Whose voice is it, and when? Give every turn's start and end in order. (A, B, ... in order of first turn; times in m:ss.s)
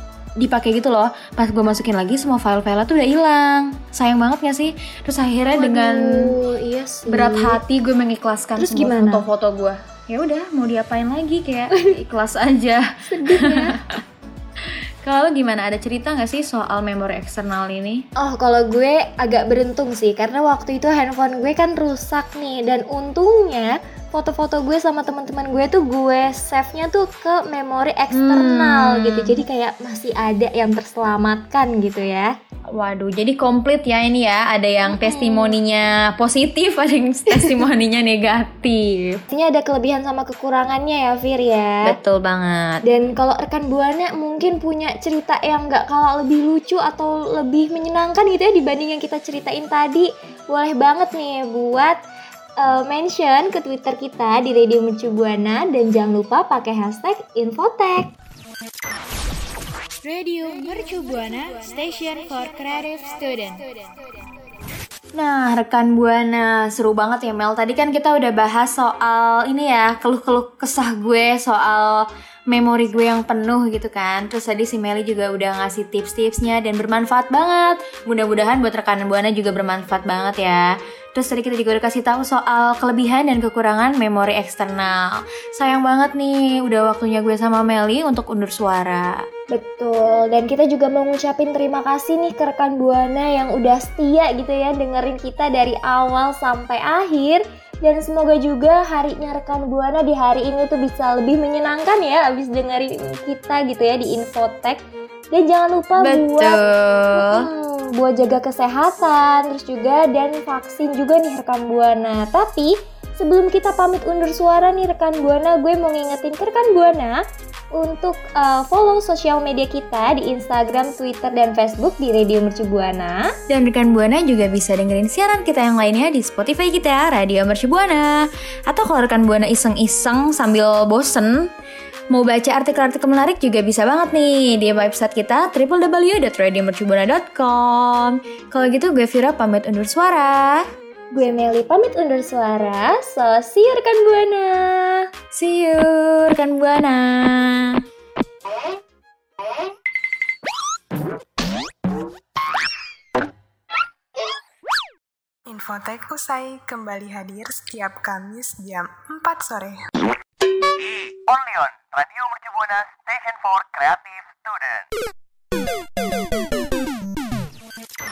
0:00.4-0:06.4 A
0:05.5-0:07.6 B
0:07.1-0:14.0 A
0:08.6-0:09.3 B
0:11.7-0:12.0 B
0:13.1-0:13.8 B
0:15.0-0:18.0 A
0:18.2-0:32.3 B
0:28.1-0:29.4 A
0:32.7-0:39.2 A
0:34.9-0:35.6 B
0:39.3-0:41.9 B
0:41.8-0:42.8 A
0:42.8-0:52.0 B
0:52.6-0:58.1 B
1:00.0-1:03.9 C
1:05.2-1:25.0 A
1:25.6-1:29.2 A
1:29.5-1:44.8 B
1:45.3-1:46.6 B
1:46.0-1:47.5 A
1:47.1-1:57.2 B
1:57.8-2:03.2 B
2:03.5-2:11.5 A
2:12.1-2:20.6 A
2:21.1-2:25.0 B
2:25.3-2:27.8 A
2:35.5-2:39.9 D
2:41.5-2:44.6 E